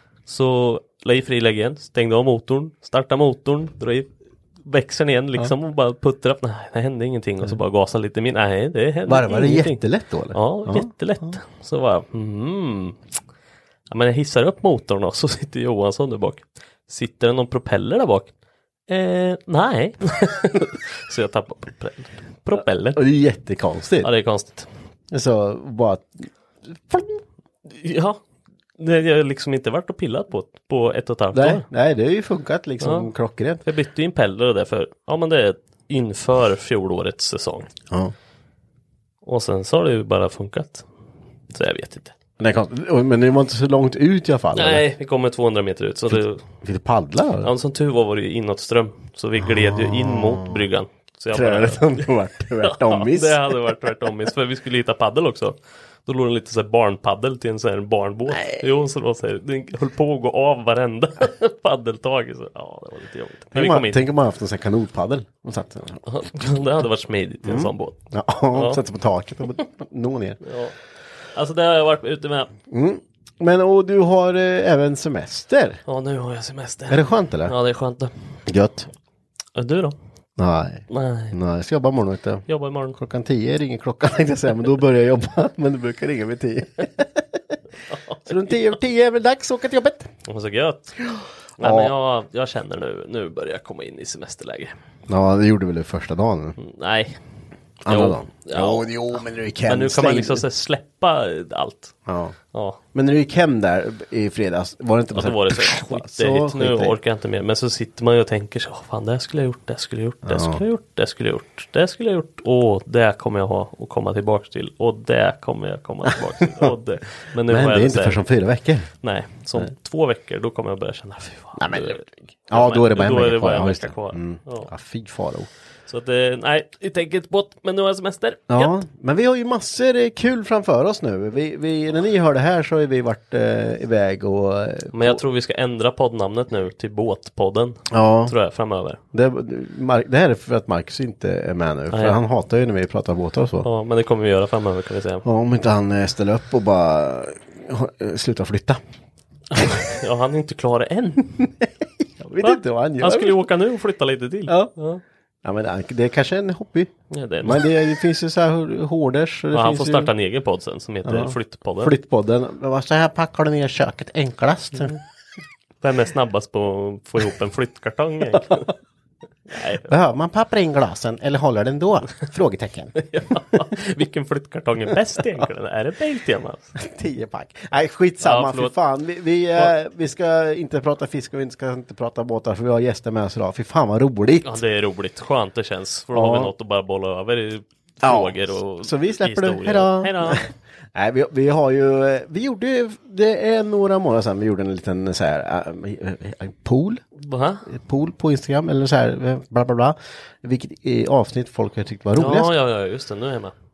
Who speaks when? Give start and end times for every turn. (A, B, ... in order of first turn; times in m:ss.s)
0:00.3-0:04.1 A
0:04.6-0:09.8 A
0:09.1-0:11.4 B
0:10.3-0:13.0 A
0:13.9-0:18.3 A
0:18.9-0:23.0 A
0:22.9-0:24.1 B
0:24.0-0:24.7 A
0:25.1-0:27.2 B
0:27.7-0:28.2 A
0:28.8-0:31.7 A
0:31.3-0:33.6 B
0:32.8-0:33.1 A
0:33.6-0:37.7 A
0:39.2-0:40.8 A
0:41.5-0:42.1 A
0:42.4-0:44.8 B
0:44.5-0:46.4 A
0:46.1-0:47.5 B
0:47.4-0:52.1 A
0:49.4-0:50.6 B
0:51.3-0:53.5 B
0:52.6-1:04.0 A
0:58.3-0:58.6 B
1:03.5-1:06.0 B
1:06.1-1:07.9 A
1:07.4-1:10.4 B
1:08.5-1:08.8 A
1:10.4-1:10.7 A
1:11.3-1:12.5 A
1:12.7-1:15.8 B
1:15.9-1:18.1 A
1:16.9-1:17.5 B
1:18.5-1:18.9 B
1:19.5-1:20.0 A
1:20.4-1:27.5 B
1:20.9-1:21.4 A
1:22.5-1:23.0 A
1:27.9-1:28.2 A
1:28.2-1:30.1 B
1:30.3-1:31.0 A
1:31.1-1:31.9 B
1:31.6-1:34.7 A
1:35.1-1:36.6 B
1:36.6-1:37.2 A
1:37.8-1:40.4 B
1:37.8-1:38.9 A
1:39.6-1:41.9 A
1:42.0-1:42.3 B
1:42.9-1:46.9 B
1:45.1-1:58.2 A
1:50.2-1:50.6 B
1:57.4-1:58.9 B
1:59.0-2:04.7 A
2:01.6-2:05.5 B
2:05.9-2:08.8 A
2:08.5-2:15.2 B
2:14.9-2:19.0 A
2:17.9-2:18.3 B
2:19.1-2:23.7 B
2:21.9-2:22.2 A
2:23.6-2:25.2 A
2:25.2-2:28.8 B
2:29.5-2:31.5 A
2:32.2-2:33.4 B
2:32.4-2:35.0 A
2:34.5-2:34.7 B
2:35.4-2:36.9 B
2:37.1-2:37.6 A
2:37.4-2:40.1 B
2:39.5-2:41.9 A
2:41.0-2:45.0 B
2:45.8-2:48.7 A
2:49.5-2:49.9 A
2:49.8-2:53.0 B
2:53.0-2:56.7 A
2:56.8-3:04.6 B
2:58.2-2:58.7 A
3:04.4-3:10.5 A
3:06.1-3:06.5 B
3:08.0-3:17.0 B
3:17.2-3:17.6 A
3:17.6-3:22.5 B
3:22.2-3:23.5 A